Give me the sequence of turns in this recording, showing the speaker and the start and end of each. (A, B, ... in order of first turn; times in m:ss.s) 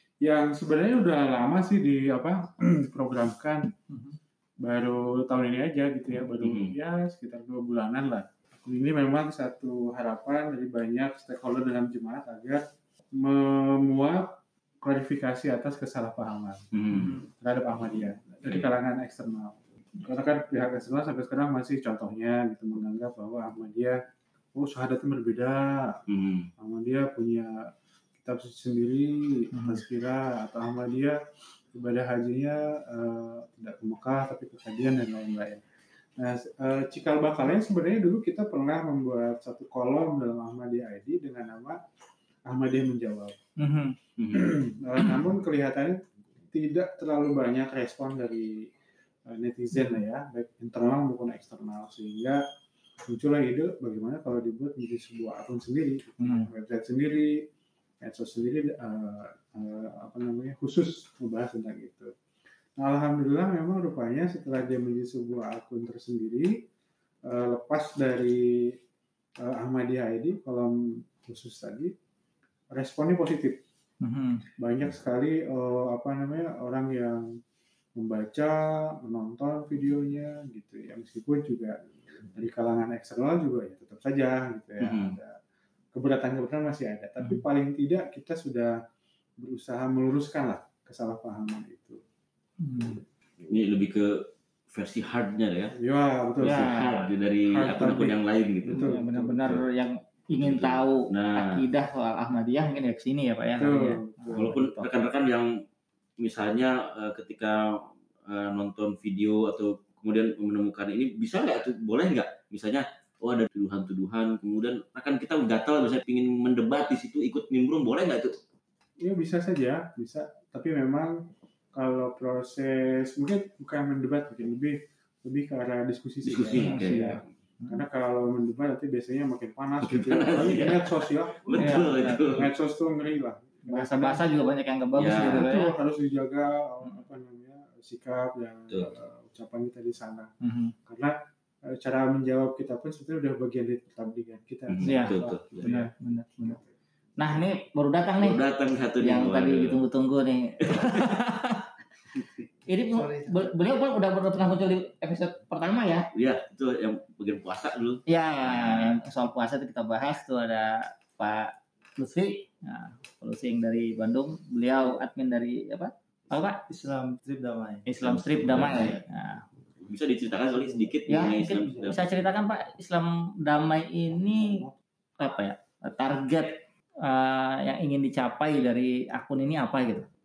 0:00.2-0:03.7 A
0:04.6-0:16.6 A
0:06.4-0:06.7 B
0:16.7-0:17.2 B
0:16.9-0:17.2 C
0:17.2-0:24.0 A
0:24.5-0:26.0 A
0:26.1-0:26.5 B
0:26.6-0:31.2 A
0:29.5-0:29.8 C
0:31.7-0:35.6 A
0:36.2-0:41.8 A
0:42.4-0:43.4 A
0:43.6-0:43.9 C
0:44.2-0:44.5 B
0:44.3-0:48.7 A
0:49.3-0:52.4 A
0:53.0-0:57.5 A
0:56.2-0:56.5 C
0:58.0-1:02.1 A
1:02.8-1:06.6 A
1:07.2-1:08.8 A
1:09.4-1:11.9 A
1:12.7-1:13.6 A
1:14.0-1:14.4 C
1:14.6-1:17.3 A
1:18.0-1:25.4 A
1:24.8-1:25.2 B
1:25.9-1:28.8 A
1:29.4-1:32.0 A
1:32.6-1:33.0 C
1:33.4-1:34.1 B
1:34.7-1:35.7 B
1:35.8-1:36.9 A
1:36.4-1:36.9 C
1:36.5-1:39.6 B
1:37.5-1:39.3 A
1:38.7-1:44.9 C
1:40.4-1:41.7 B
1:43.6-1:44.6 A
1:44.3-1:45.5 B
1:46.2-1:58.3 B
1:59.0-2:14.2 A
2:06.2-2:07.2 B
2:06.6-2:07.0 C
2:09.8-2:12.5 B
2:11.6-2:12.3 C
2:13.6-2:15.7 C
2:15.0-2:15.5 B
2:15.0-2:20.3 A
2:20.4-2:20.7 C
2:20.8-2:25.9 A
2:24.7-2:25.7 B
2:24.8-2:26.6 C
2:27.2-2:28.4 C
2:28.2-2:29.8 B
2:29.0-2:31.7 C
2:32.1-2:32.4 B
2:32.7-2:36.1 C
2:32.9-2:33.5 D
2:36.1-2:39.0 B
2:38.1-2:46.6 C
2:46.3-2:47.9 D
2:47.8-2:49.4 C
2:48.0-2:49.0 B
2:49.8-2:52.1 B
2:51.0-2:54.7 C
2:55.2-3:00.1 C